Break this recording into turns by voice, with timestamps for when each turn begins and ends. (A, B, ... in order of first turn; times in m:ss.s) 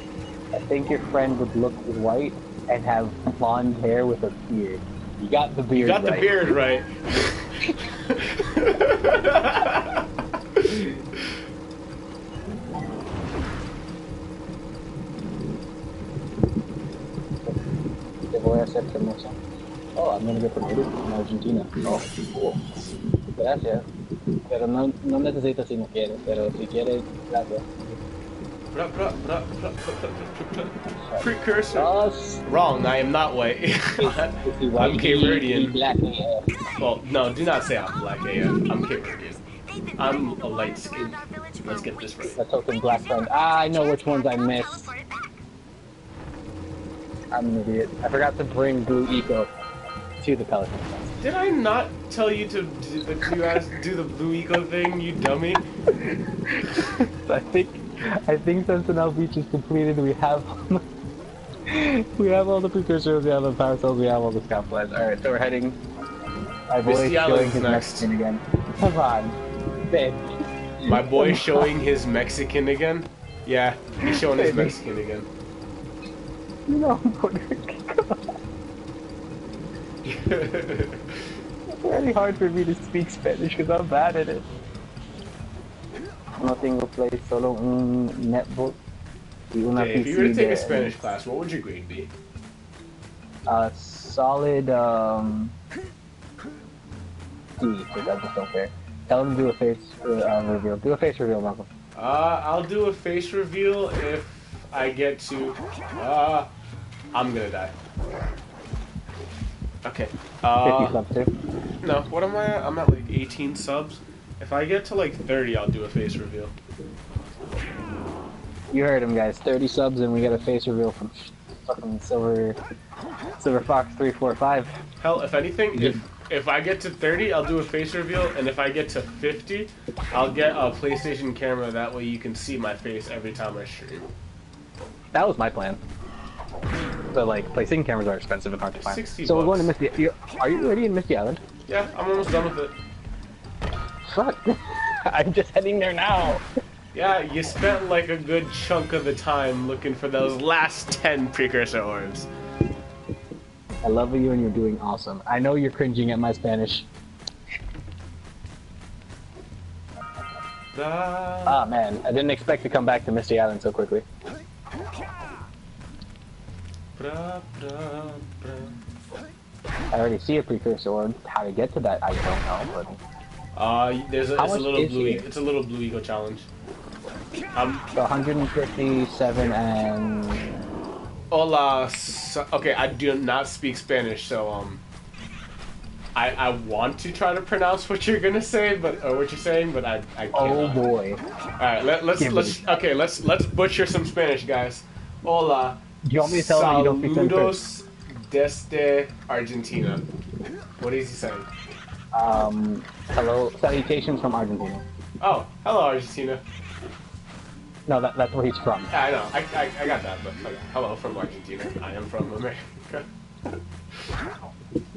0:00.5-0:06.3 A
0:05.7-0:10.8 B
0:18.3-0:19.4 A
0:20.0-0:22.7 A
0:23.4-0:23.9 A
0:24.5-0:27.7 A
0:28.7-0:35.8 B
0:31.0-0:32.4 A
0:34.0-0:36.5 A
0:36.7-0:45.4 C
0:36.8-0:39.4 B
0:40.0-0:42.4 B
0:42.4-0:44.9 A
0:47.3-0:49.5 A
0:50.2-0:51.2 A
0:51.2-0:55.6 B
0:55.9-0:56.7 A
0:57.2-1:00.8 A
1:01.7-1:05.8 A
1:06.7-1:11.7 A
1:06.8-1:08.1 B
1:10.8-1:15.3 B
1:14.0-1:14.8 A
1:16.7-1:18.4 A
1:20.0-1:21.2 B
1:21.7-1:24.5 A
1:26.4-1:28.8 A
1:29.5-1:31.0 A
1:29.8-1:32.1 B
1:33.5-1:35.5 A
1:37.6-1:41.7 A
1:42.0-1:46.5 B
1:47.1-1:47.7 B
1:49.8-1:51.0 B
1:50.6-1:51.3 A
1:51.8-1:56.5 B
1:58.7-2:02.6 A
2:03.4-2:04.7 A
2:05.0-2:14.1 B
2:05.7-2:06.0 A
2:15.1-2:15.8 A
2:17.1-2:21.4 A
2:18.8-2:19.7 B
2:21.7-2:22.8 B
2:24.0-2:26.4 A
2:26.9-2:32.3 B
2:33.8-2:36.9 A
2:40.7-2:41.7 B
2:41.5-2:44.0 A
2:47.0-2:48.8 B
2:49.9-2:53.0 A
2:53.6-2:56.5 B
2:54.4-2:55.2 A
2:57.5-2:57.8 B
2:58.0-3:00.6 A
3:01.3-3:04.8 B
3:06.2-3:10.8 B
3:10.3-3:11.2 A
3:11.6-3:20.0 B
3:12.2-3:12.7 A
3:16.0-3:17.6 A
3:20.8-3:21.5 B
3:22.1-3:24.8 A
3:25.2-3:26.4 B
3:27.9-3:28.9 A
3:28.9-3:33.6 B